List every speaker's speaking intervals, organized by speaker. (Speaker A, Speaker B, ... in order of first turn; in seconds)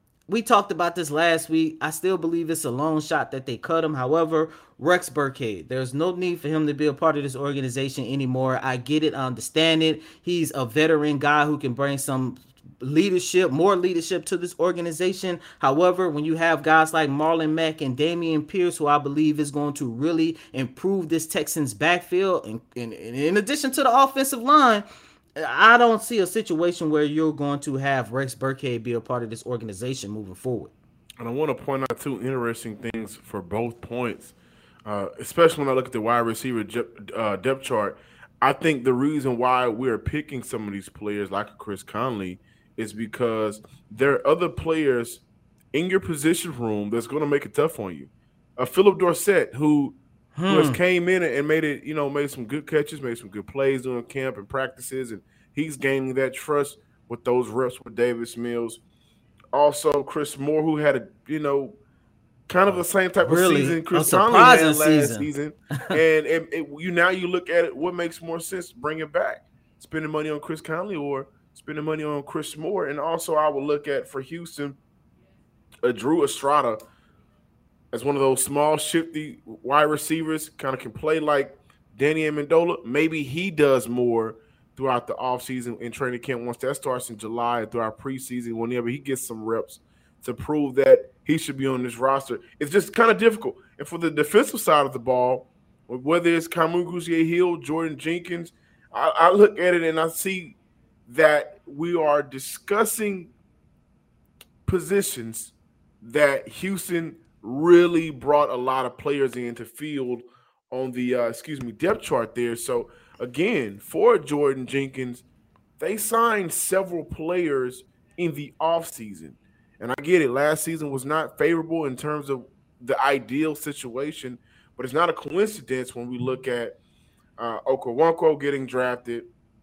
Speaker A: 0.3-24.8, 25.4-30.7, 50.4-50.8, 63.2-65.3
Speaker B: 31.2-34.4, 34.9-45.2, 45.7-50.0, 50.5-58.8, 59.5-61.8, 62.5-74.8, 75.8-76.8, 77.9-100.6, 101.1-103.3, 104.7-115.2, 115.8-126.8, 127.4-129.3